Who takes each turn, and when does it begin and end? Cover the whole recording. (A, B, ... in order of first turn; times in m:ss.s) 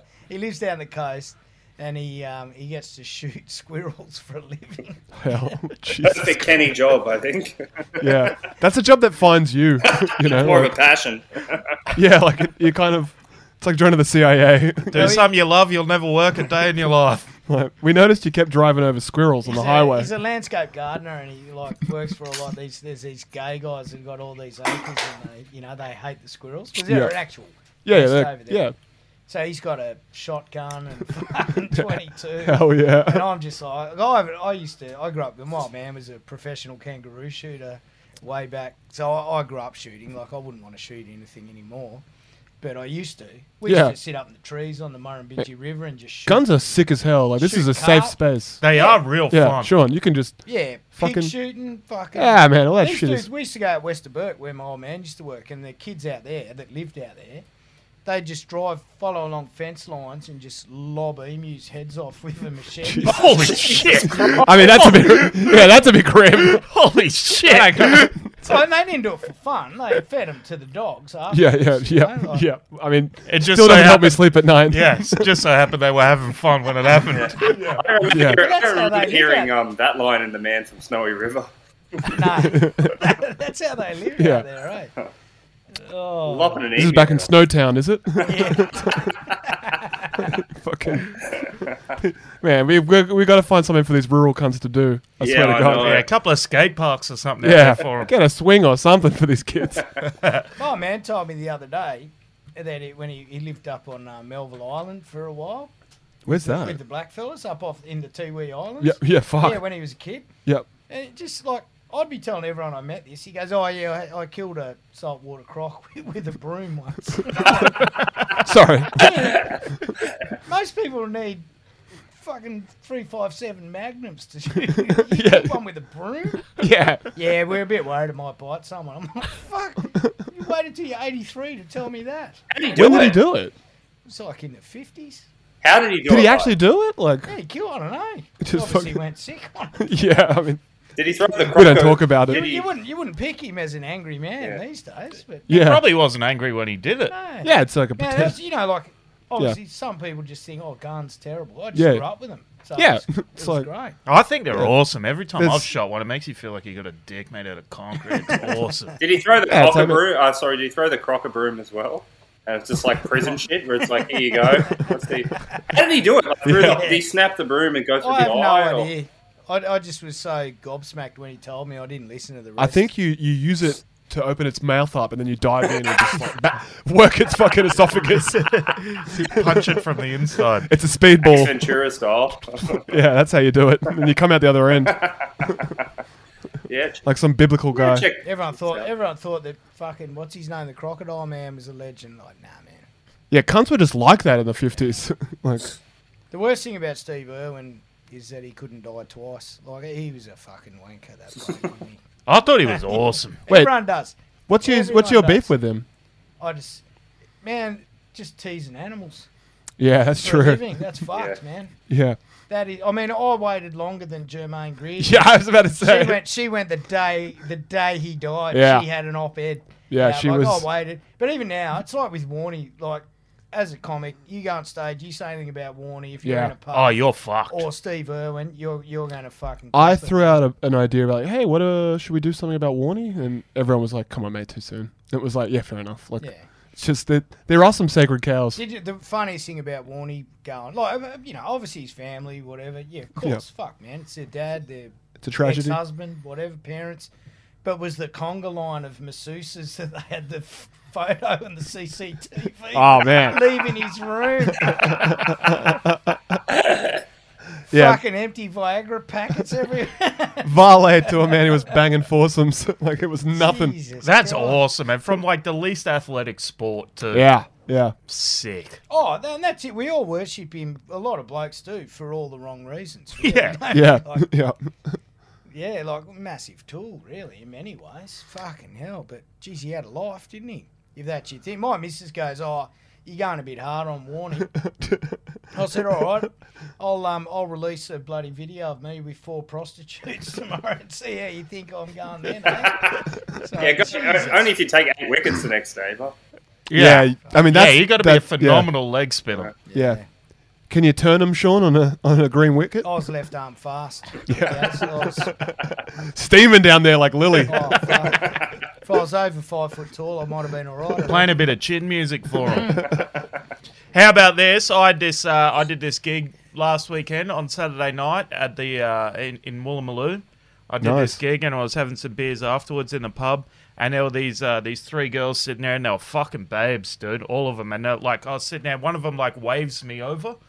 0:00.3-0:05.6 A
0:05.2-0:06.7 B
0:06.0-0:08.3 C
0:08.0-0:10.8 B
0:09.9-0:11.9 C
0:11.9-0:15.2 B
0:14.9-0:15.3 A
0:14.9-0:17.3 D
0:17.5-0:20.1 B
0:19.4-0:28.7 A
0:26.9-0:27.2 B
0:27.8-0:28.8 B
0:29.3-0:42.0 A
0:31.7-0:33.3 B
0:42.6-0:46.5 A
0:43.6-0:44.0 B
0:46.3-0:48.6 B
0:47.4-0:49.0 A
0:48.6-0:49.7 D
0:49.3-0:51.4 B
0:50.4-0:57.4 A
0:52.2-0:53.3 B
0:58.0-1:03.9 A
1:02.8-1:03.5 B
1:03.0-1:08.1 D
1:03.5-1:04.4 C
1:04.4-1:06.7 B
1:07.4-1:08.6 B
1:07.5-1:12.5 A
1:11.3-1:15.4 B
1:13.3-1:17.8 D
1:17.1-1:21.5 C
1:17.5-1:19.5 A
1:18.0-1:18.4 B
1:22.0-1:24.9 A
1:22.4-1:23.0 B
1:24.2-1:24.5 B
1:25.8-1:26.7 A
1:26.2-1:27.3 C
1:26.7-1:29.2 B
1:28.2-1:30.3 A
1:30.2-1:36.0 B
1:35.2-1:36.1 C
1:35.7-1:38.1 D
1:37.4-1:39.9 B
1:40.0-1:40.5 D
1:40.6-1:45.7 A
1:46.3-1:46.8 B
1:46.3-1:50.3 A
1:48.8-1:49.7 B
1:50.9-1:57.9 A
1:57.3-1:59.2 B
1:58.9-1:59.6 A
2:00.3-2:01.5 A
2:02.1-2:12.4 A
2:04.8-2:05.6 B
2:06.6-2:07.1 B
2:12.5-2:13.2 C
2:12.7-2:13.5 B
2:14.1-2:15.3 A
2:15.6-2:16.6 C
2:16.0-2:17.3 B
2:17.3-2:20.0 A
2:18.4-2:19.0 B
2:19.8-2:20.6 B
2:21.0-2:22.7 C
2:21.4-2:22.5 B
2:22.3-2:25.5 A
2:25.5-2:25.9 B
2:25.5-2:27.1 D
2:27.1-2:34.0 A
2:27.4-2:28.4 B
2:31.7-2:32.1 B
2:32.8-2:33.7 B
2:34.1-2:39.0 D
2:35.4-2:35.7 B
2:38.2-2:38.5 A
2:39.0-2:48.9 C
2:39.4-2:40.0 B
2:46.4-2:46.9 B
2:46.6-2:47.0 A
2:48.0-2:52.9 A
2:52.6-3:01.8 B
2:58.4-3:00.7 D
3:01.2-3:02.9 C
3:02.8-3:05.7 B
3:04.9-3:05.7 C
3:06.7-3:07.0 C
3:07.0-3:08.1 B
3:07.7-3:08.9 C
3:08.2-3:12.9 A
3:13.3-3:15.8 B
3:16.3-3:22.0 A
3:22.3-3:23.4 D
3:22.9-3:25.5 A
3:23.5-3:23.8 B
3:24.5-3:25.8 B
3:26.4-3:26.8 A
3:27.4-3:29.3 A
3:29.8-3:30.7 B
3:30.2-3:31.7 A
3:31.9-3:32.2 B
3:32.5-3:50.4 A
3:35.0-3:36.2 B
3:38.5-3:38.9 B
3:39.9-3:40.7 B
3:46.2-3:46.6 B
3:46.7-3:47.7 D
3:49.7-3:58.6 B
3:56.2-3:56.5 A
3:58.6-4:07.1 A
4:05.2-4:05.8 B
4:07.6-4:15.4 A
4:12.7-4:13.6 B
4:14.6-4:16.4 B
4:17.7-4:18.0 B
4:17.7-4:20.5 A
4:20.4-4:23.8 B
4:21.1-4:21.4 A
4:23.3-4:24.6 A
4:24.0-4:27.3 D
4:27.1-4:28.0 B
4:28.1-4:28.8 D
4:28.9-4:34.3 A
4:33.2-4:33.6 D
4:33.7-4:35.0 B
4:35.5-4:44.5 A
4:44.5-4:45.2 B
4:45.5-4:54.5 A
4:52.5-4:53.0 C
4:53.6-4:56.2 C
4:56.7-4:59.5 D
4:56.7-4:58.7 B
4:59.7-5:00.1 A
4:59.7-5:00.0 B
5:00.7-5:02.9 B
5:02.8-5:05.4 A
5:04.3-5:08.1 B
5:07.5-5:11.4 A
5:11.0-5:12.9 D
5:13.9-5:30.4 D
5:20.8-5:21.2 B